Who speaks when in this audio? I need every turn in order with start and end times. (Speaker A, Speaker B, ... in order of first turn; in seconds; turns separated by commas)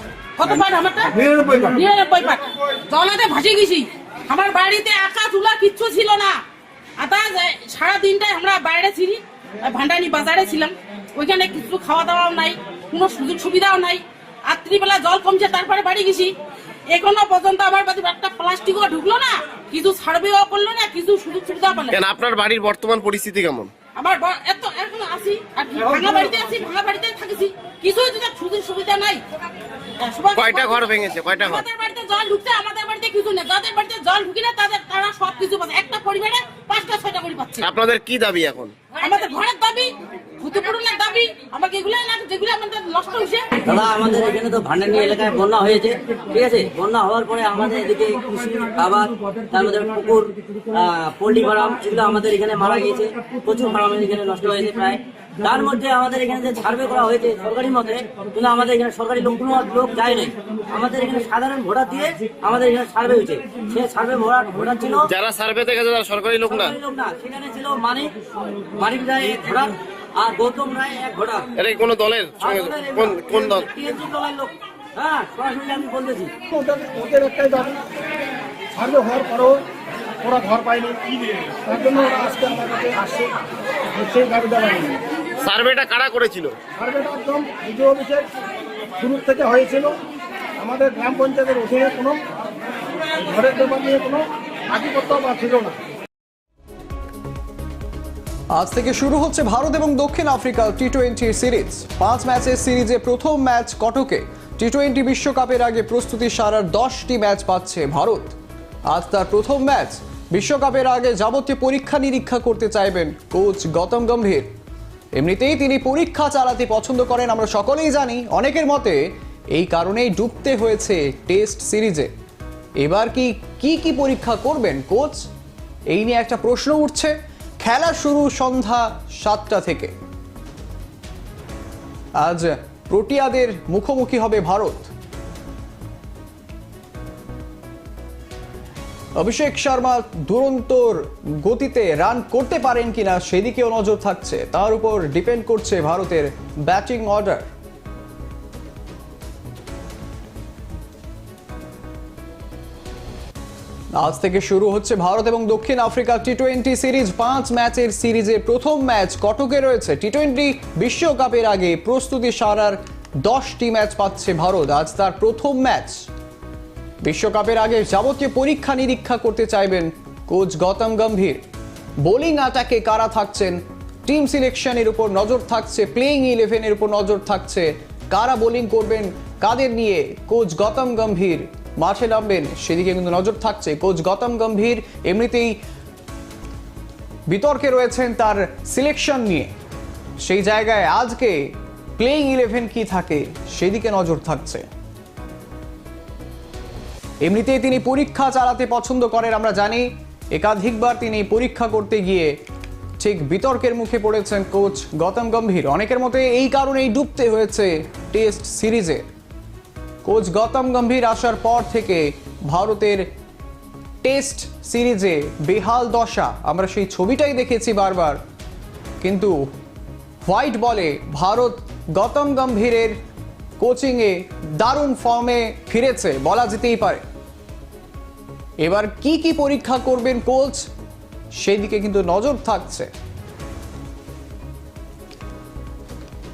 Speaker A: 0.4-6.4, Speaker A: 7.0-16.3, Speaker A: 16.9-22.0, Speaker B: 21.9-23.7, Speaker A: 24.0-29.2, Speaker A: 30.0-37.7, Speaker B: 30.3-31.6, Speaker B: 37.6-38.7, Speaker A: 39.0-43.5, Speaker C: 43.6-65.1, Speaker B: 65.1-66.8, Speaker C: 66.7-71.5, Speaker B: 71.6-73.7, Speaker C: 72.4-76.3, Speaker D: 76.5-77.8, Speaker D: 78.8-79.6, Speaker D: 80.2-83.3, Speaker D: 84.0-84.9, Speaker B: 85.4-86.5, Speaker D: 86.8-88.3, Speaker D: 89.0-89.9, Speaker D: 90.6-92.2, Speaker D: 93.2-95.8, Speaker E: 98.5-108.3, Speaker E: 108.9-114.5, Speaker E: 115.1-119.0, Speaker E: 119.5-122.1, Speaker E: 122.8-125.3, Speaker E: 125.9-129.9, Speaker E: 132.2-134.9, Speaker E: 139.2-147.5, Speaker E: 153.9-166.1, Speaker E: 167.0-171.4, Speaker E: 172.0-185.6, Speaker E: 187.3-189.5, Speaker E: 190.2-194.7, Speaker E: 197.2-202.3, Speaker E: 203.0-209.0, Speaker E: 210.0-213.1, Speaker E: 214.0-218.2, Speaker E: 219.0-219.3, Speaker E: 220.2-222.9, Speaker E: 223.6-227.0, Speaker E: 228.6-230.7, Speaker E: 231.3-232.9